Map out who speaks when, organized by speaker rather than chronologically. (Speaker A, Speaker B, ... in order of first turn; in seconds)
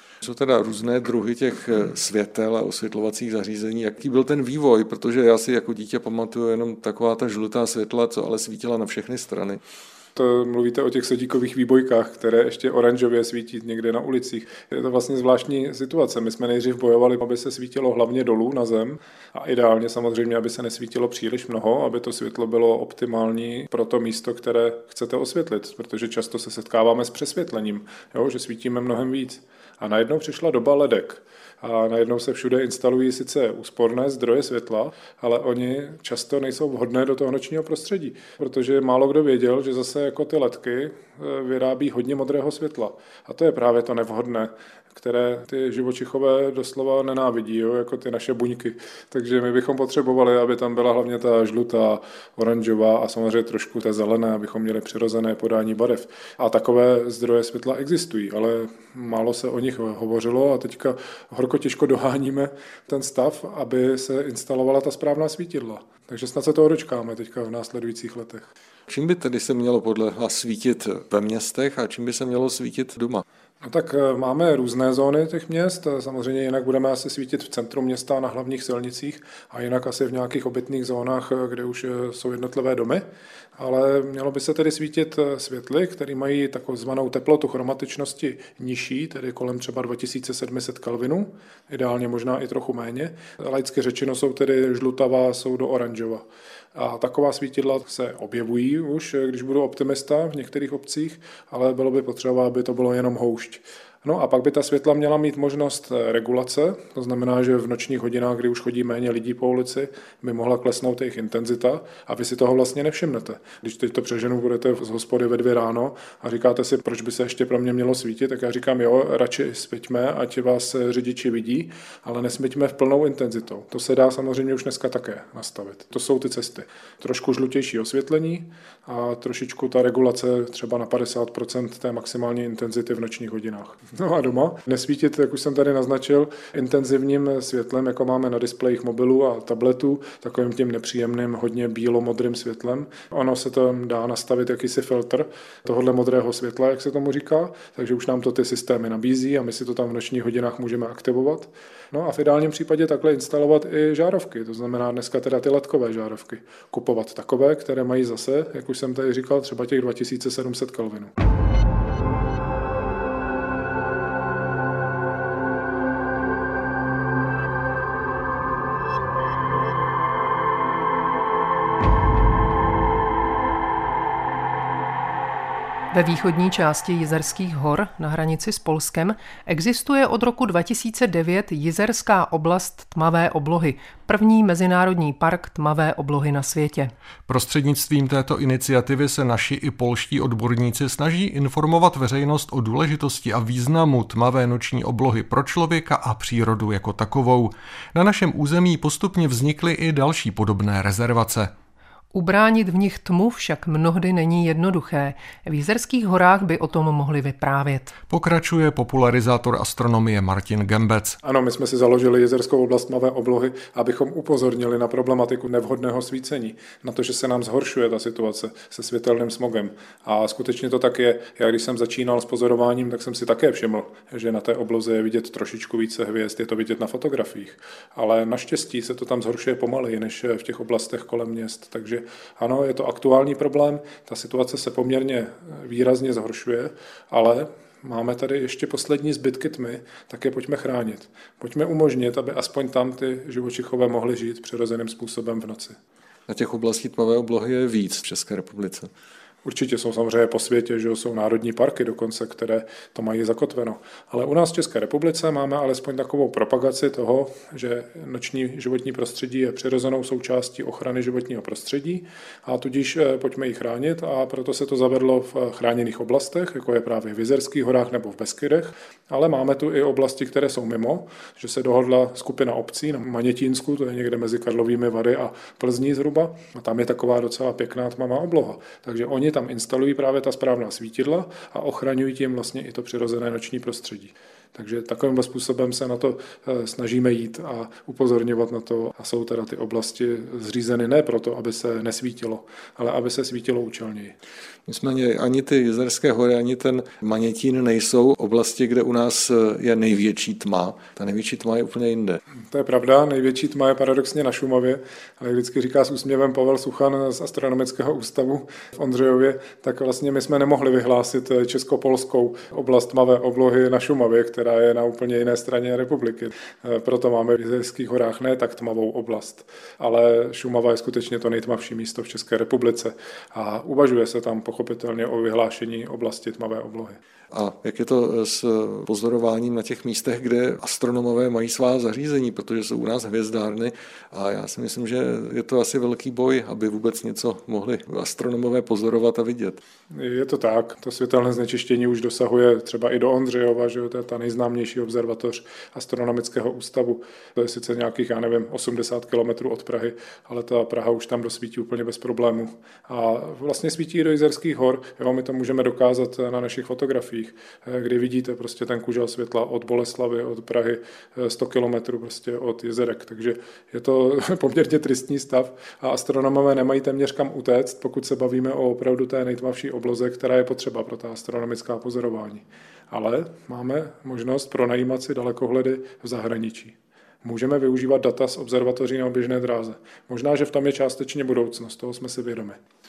Speaker A: 0.2-9.6, 68.9-73.2, 246.3-248.9, 294.7-302.2, 327.3-339.6
Speaker B: 10.2-68.5, 73.6-83.0, 83.6-161.1, 211.2-245.8, 249.4-294.1, 302.5-327.0, 339.9-382.6
Speaker C: 175.9-186.9, 202.1-207.9
Speaker D: 187.3-201.5, 208.1-211.2